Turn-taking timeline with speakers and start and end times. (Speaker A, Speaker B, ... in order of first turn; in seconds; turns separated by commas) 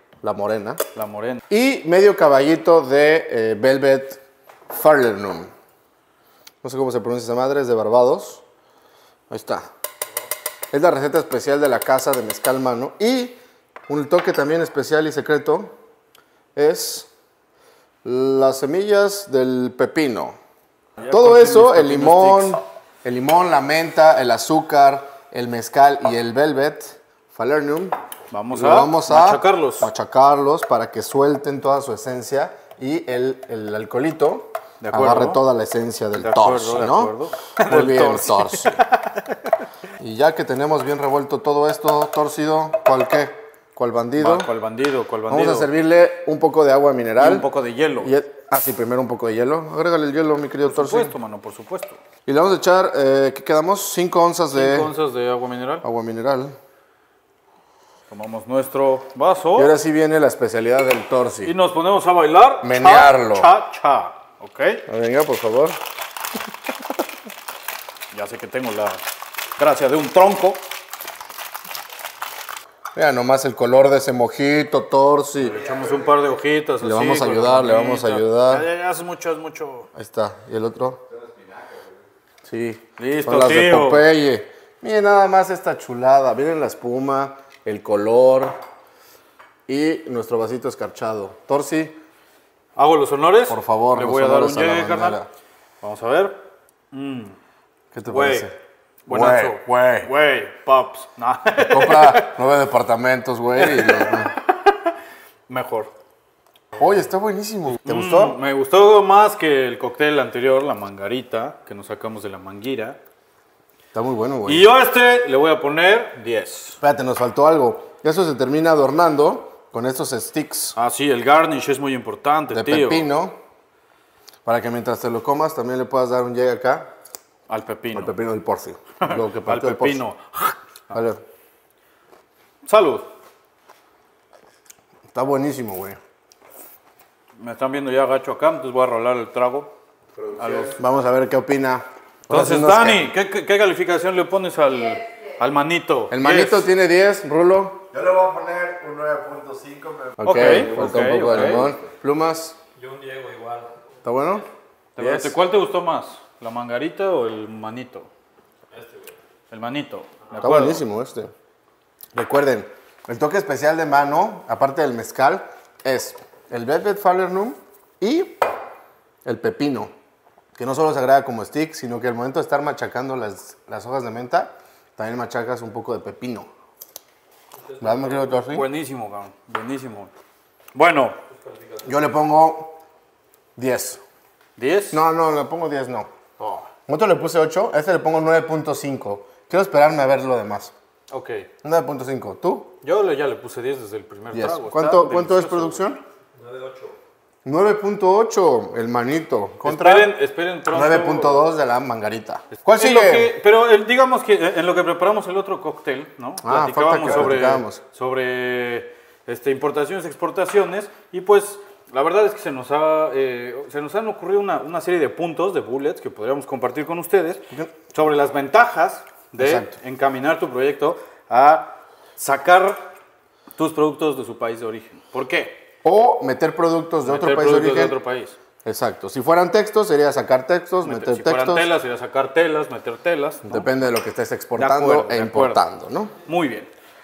Speaker A: 0.2-0.8, Speaker B: 0.9-1.4, Speaker A: 1.5-5.5, Speaker A: 6.6-8.4, Speaker A: 9.3-9.7, Speaker A: 10.7-15.7, Speaker A: 16.6-17.1, Speaker A: 18.0-20.4, Speaker B: 21.0-22.6, Speaker A: 21.1-28.0, Speaker B: 28.3-29.9, Speaker A: 28.5-38.8, Speaker B: 34.8-35.4, Speaker B: 36.2-39.1, Speaker A: 40.0-44.5, Speaker B: 44.2-45.7, Speaker A: 45.3-47.5, Speaker B: 47.2-48.1, Speaker A: 48.0-51.1, Speaker B: 50.6-52.0, Speaker A: 52.3-54.9, Speaker B: 54.5-55.9, Speaker A: 55.8-56.6, Speaker B: 58.1-59.7, Speaker A: 59.5-61.5, Speaker B: 61.4-64.8, Speaker A: 62.6-63.5, Speaker A: 64.9-65.8, Speaker B: 68.1-69.0, Speaker B: 69.6-70.7, Speaker A: 73.0-75.7, Speaker B: 75.4-79.9, Speaker A: 76.8-78.7, Speaker A: 79.9-81.0, Speaker A: 82.5-88.6, Speaker B: 83.0-84.1, Speaker A: 89.7-92.0, Speaker B: 92.8-95.2, Speaker A: 93.5-95.3, Speaker B: 95.8-97.4, Speaker A: 97.9-98.6, Speaker B: 98.0-98.5, Speaker B: 99.1-102.4, Speaker A: 99.1-100.1, Speaker A: 101.6-104.3, Speaker B: 103.6-104.9, Speaker B: 105.5-105.9, Speaker A: 106.8-108.4, Speaker B: 107.7-113.0, Speaker A: 113.9-114.7, Speaker B: 114.5-116.8, Speaker A: 116.8-120.8, Speaker B: 120.8-123.1, Speaker A: 122.5-123.4, Speaker A: 124.5-126.9, Speaker B: 127.5-128.1, Speaker A: 127.9-130.0, Speaker B: 129.0-131.0, Speaker A: 130.9-131.2, Speaker B: 132.7-133.1, Speaker A: 135.1-136.0, Speaker B: 137.4-139.7, Speaker C: 140.2-140.7, Speaker B: 140.4-140.7, Speaker A: 140.7-143.1, Speaker B: 142.3-146.7, Speaker A: 146.1-148.2, Speaker C: 148.0-151.7, Speaker A: 150.1-152.6, Speaker B: 150.2-151.7, Speaker D: 152.8-153.8, Speaker A: 154.0-155.4, Speaker B: 155.0-158.1, Speaker D: 158.7-159.2, Speaker B: 159.5-160.8, Speaker A: 160.4-161.3, Speaker A: 162.1-168.4, Speaker A: 169.2-169.9, Speaker A: 170.6-176.5, Speaker D: 177.5-178.3, Speaker A: 177.8-178.7, Speaker B: 178.5-180.1, Speaker B: 180.8-181.2, Speaker D: 181.3-182.0, Speaker A: 181.8-182.8, Speaker A: 183.6-184.0, Speaker B: 184.6-185.0, Speaker A: 184.9-186.1, Speaker B: 186.4-186.7, Speaker A: 186.9-190.7, Speaker B: 191.1-191.5, Speaker A: 191.6-192.8, Speaker B: 192.8-195.9, Speaker A: 194.3-196.0, Speaker D: 196.4-197.0, Speaker A: 197.4-200.2, Speaker B: 199.6-201.5, Speaker A: 200.7-203.3, Speaker B: 202.6-222.9, Speaker A: 206.4-207.8, Speaker A: 219.4-219.7, Speaker B: 223.6-225.7, Speaker A: 225.8-228.0, Speaker B: 227.0-228.4, Speaker A: 228.7-231.7, Speaker B: 230.8-233.7, Speaker A: 233.4-236.1, Speaker B: 234.6-235.6, Speaker B: 236.2-236.7